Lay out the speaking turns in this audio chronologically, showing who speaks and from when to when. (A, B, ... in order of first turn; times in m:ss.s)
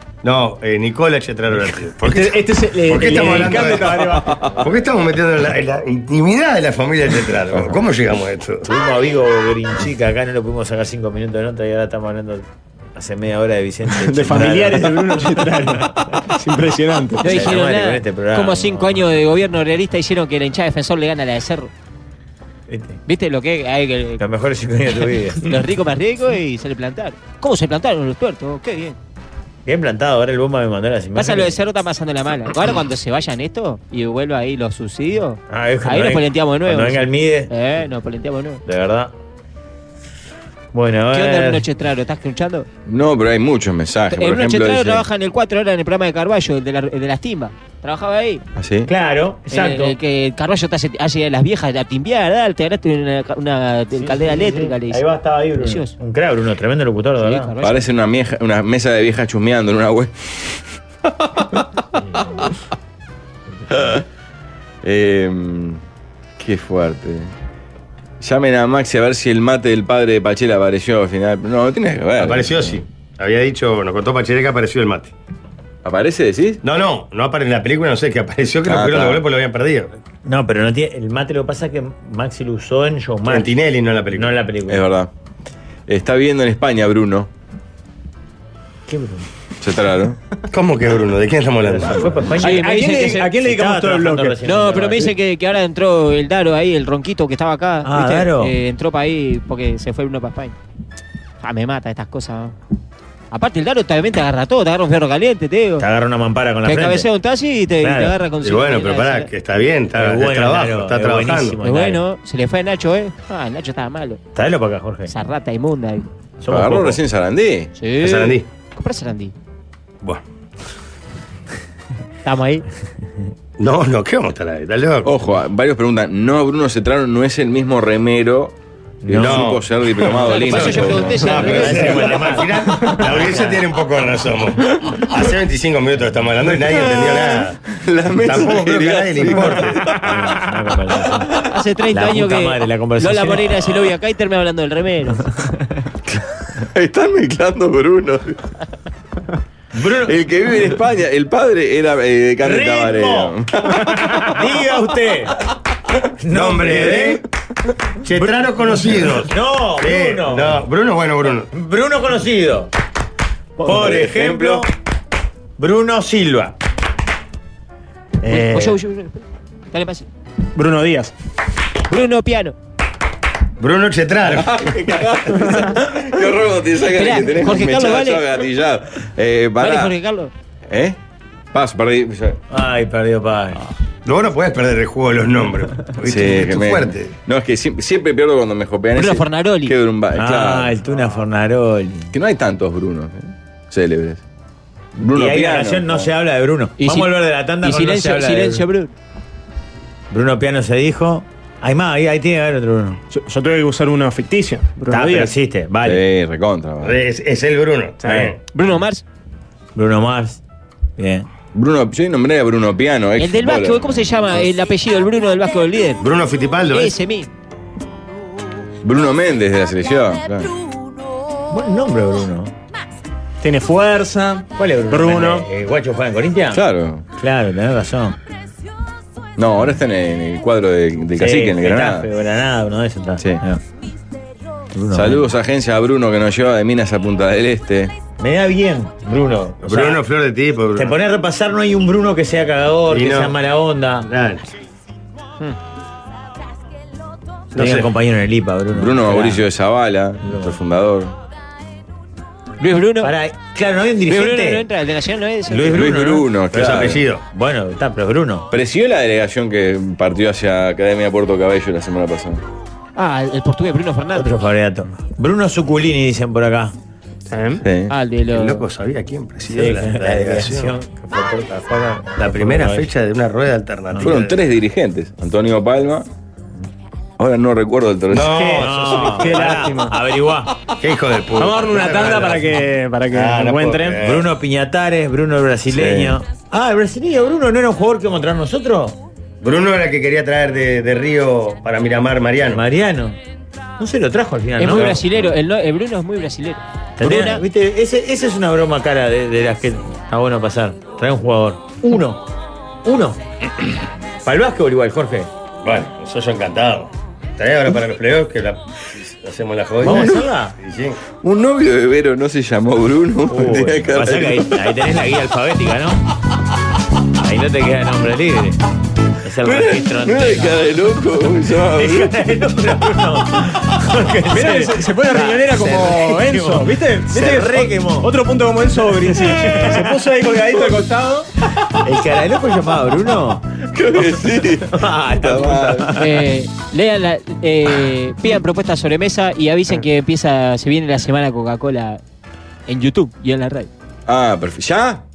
0:00.2-0:08.6 A
0:02.0-0:04.4 B
0:08.6-0:15.9 C
0:13.9-0:17.3 B
0:17.2-0:19.0 C
0:17.2-0:21.7 D
0:22.7-0:23.0 C
0:23.1-0:24.2 D
0:24.2-0:25.4 C
0:25.4-0:29.0 D
0:29.6-0:31.5 C
0:31.2-0:38.6 D
0:35.5-0:37.5 C
0:38.6-0:39.1 C
0:40.7-0:41.6 C
0:41.1-0:42.7 D
0:42.8-0:45.0 E
0:44.1-0:48.4 D
0:48.6-0:48.9 E
0:48.9-0:49.9 C
0:49.5-0:55.0 D
0:53.9-0:57.5 C
0:55.6-0:55.9 D
0:57.2-0:57.8 D
0:57.6-1:00.6 E
1:03.7-1:04.0 E
1:04.8-1:05.8 E
1:06.4-1:07.3 E
1:08.2-1:12.8 E
1:12.2-1:15.1 A
1:15.8-1:16.6 E
1:16.6-1:19.9 A
1:18.6-1:19.2 E
1:20.2-1:23.5 C
1:23.3-1:24.4 A
1:24.1-1:24.8 C
1:24.7-1:25.1 E
1:25.9-1:27.3 E
1:28.9-1:29.3 C
1:29.6-1:30.2 E
1:30.5-1:32.2 A
1:31.6-1:35.1 C
1:32.4-1:33.3 D
1:32.4-1:34.4 B
1:34.4-1:40.6 D
1:37.8-1:38.5 C
1:41.4-1:42.5 D
1:43.3-1:45.8 D
1:45.8-1:47.0 C
1:46.6-1:49.3 D
1:47.8-1:48.1 C
1:48.4-1:51.6 A
1:49.9-1:52.0 C
1:51.6-1:54.2 D
1:54.3-1:55.1 C
1:55.1-1:56.1 D
1:56.4-1:57.0 C
1:56.5-1:57.7 E
1:57.8-1:59.3 D
1:58.0-1:58.4 A
2:02.2-2:02.6 D
2:03.6-2:05.1 A
2:05.0-2:08.5 E
2:09.0-2:09.5 C
2:09.1-2:11.4 E
2:09.1-2:19.8 A
2:10.2-2:12.3 D
2:11.2-2:13.6 C
2:16.8-2:19.9 E
2:19.8-2:21.3 C
2:21.4-2:25.3 D
2:21.9-2:23.8 C
2:26.1-2:28.4 E
2:29.7-2:30.1 C
2:30.0-2:34.2 E
2:32.4-2:33.3 C
2:34.1-2:35.4 C
2:36.2-2:37.2 C
2:36.3-2:37.2 A
2:38.0-2:41.5 A
2:38.1-2:40.6 C
2:41.5-2:42.7 C
2:43.6-2:44.7 C
2:43.6-2:44.7 E
2:45.6-2:46.6 C
2:48.2-2:48.7 B
2:48.2-2:50.0 D
2:50.5-2:51.1 B
2:51.9-2:52.5 D
2:53.6-2:54.7 A
2:54.3-2:59.9 E
2:56.9-2:58.2 D
2:59.6-3:00.3 D
3:00.7-3:01.0 E
3:01.5-3:02.4 E
3:02.5-3:03.6 C
3:04.0-3:07.1 A
3:06.0-3:10.8 E
3:09.0-3:09.7 D
3:10.1-3:12.1 C
3:12.1-3:14.2 E
3:15.0-3:18.6 C
3:15.0-3:16.1 E
3:16.8-3:18.9 D
3:20.1-3:23.0 C
3:23.1-3:25.3 B
3:24.9-3:26.0 C
3:25.8-3:27.0 E
3:26.8-3:28.4 A
3:28.0-3:28.3 B
3:28.5-3:29.0 D
3:29.7-3:30.4 C
3:31.0-3:31.3 C
3:31.5-3:34.1 E
3:33.2-3:36.0 D
3:36.0-3:36.9 A
3:36.7-3:37.3 D
3:38.8-3:40.5 E
3:41.5-3:42.5 C
3:43.4-3:45.4 B
3:44.6-3:46.6 C
3:46.5-3:47.0 E
3:47.2-3:48.2 C
3:49.4-3:52.1 E
3:51.2-3:53.6 C
3:54.7-3:55.3 C
3:54.9-3:57.9 E
3:58.2-4:00.0 C
3:59.6-4:01.0 A
4:00.7-4:04.1 C
4:02.9-4:03.3 A
4:04.0-4:04.4 A
4:07.5-4:07.9 A
4:07.6-4:09.4 C
4:08.7-4:11.1 E
4:10.2-4:10.6 C
4:12.6-4:13.1 D
4:13.0-4:14.6 C
4:14.1-4:15.9 D
4:15.5-4:18.5 C
4:15.7-4:17.0 E
4:16.5-4:17.2 A
4:18.5-4:22.4 E
4:23.0-4:24.3 D
4:24.1-4:26.7 C
4:27.3-4:27.6 B
4:27.6-4:27.9 E
4:27.9-4:28.6 D
4:28.3-4:30.7 A
4:29.5-4:32.9 C
4:32.2-4:34.4 A
4:34.0-4:36.1 E
4:37.2-4:38.5 E
4:38.1-4:39.0 A
4:38.2-4:40.0 B
4:38.5-4:40.5 C
4:40.8-4:42.6 A
4:41.4-4:44.0 B
4:43.1-4:44.3 A
4:44.0-4:49.0 C
4:45.7-4:46.2 E
4:49.4-4:52.6 A
4:52.5-4:53.2 C
4:53.8-4:55.3 C
4:54.6-4:57.4 D
4:57.0-5:02.2 C
5:02.8-5:03.2 C
5:04.2-5:05.3 C
5:05.6-5:11.0 A
5:09.8-5:10.6 C
5:09.8-5:10.2 E
5:11.2-5:14.7 E
5:13.3-5:16.0 C
5:17.1-5:18.6 C
5:19.2-5:20.6 C
5:19.4-5:22.2 E
5:21.8-5:28.1 C
5:24.3-5:31.3 B
5:29.2-5:29.9 C
5:31.6-5:33.5 C
5:33.7-5:35.9 E
5:34.5-5:36.1 C
5:36.0-5:42.0 D
5:42.7-5:43.7 D
5:44.1-5:45.0 E